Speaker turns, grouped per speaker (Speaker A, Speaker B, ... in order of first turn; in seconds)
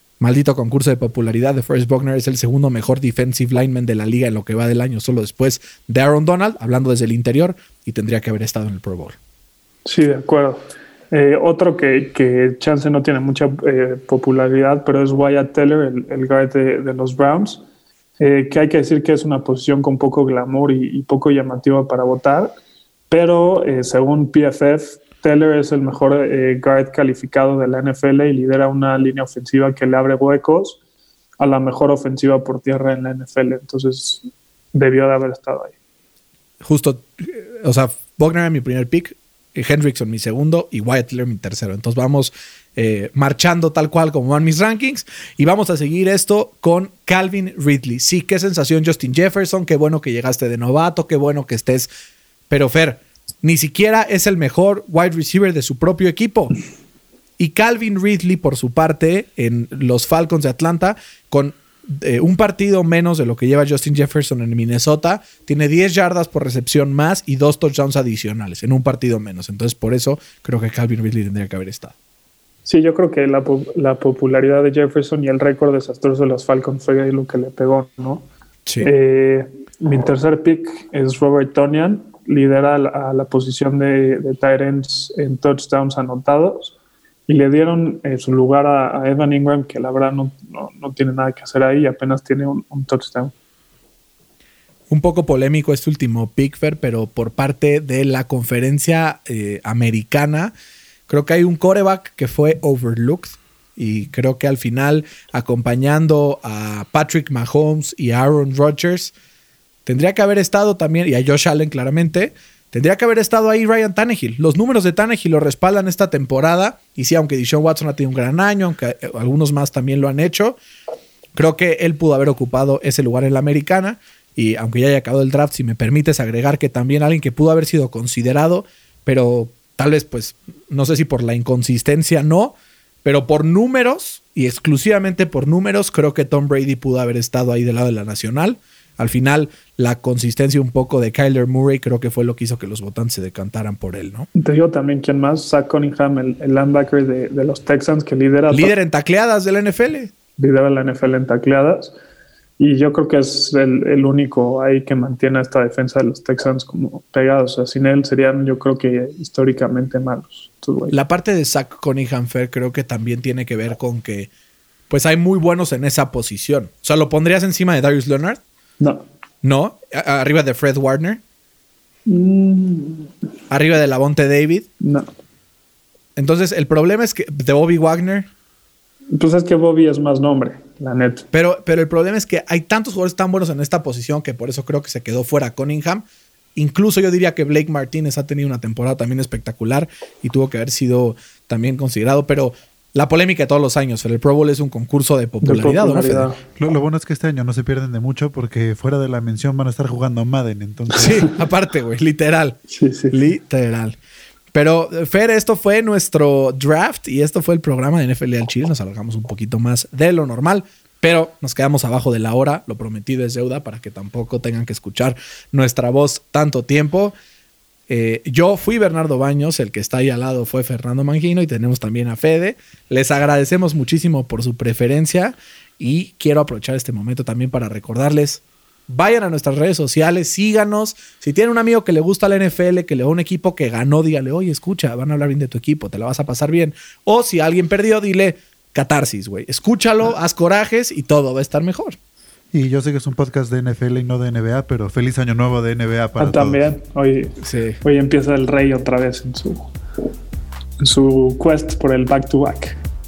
Speaker A: 0.2-9.2, 36.6-51.9, 52.5-56.5, 57.4-72.0, 94.9-100.5, 101.1-109.1, 109.9-120.6, 121.4-144.3, 148.5-150.1, 160.9-164.3, 164.9-168.4, 169.4-171.2, 173.5-174.7, 176.2-178.3, 181.3-186.1, 186.6-196.3, 200.9-202.6, 203.1-204.0, 204.5-217.2, 217.9-242.0, 247.4-247.8
Speaker B: 9.8-17.6, 18.2-22.5, 23.1-30.8, 31.4-35.8, 72.7-78.3, 78.8-86.8, 87.3-93.3, 144.3-148.7, 150.4-151.9, 152.6-161.0, 168.8-169.1, 172.1-173.1, 174.8-175.1, 179.1-181.3, 195.4-196.4, 202.7-203.2, 246.2-249.7, 250.8-252.8
Speaker C: 196.6-201.3, 242.5-246.7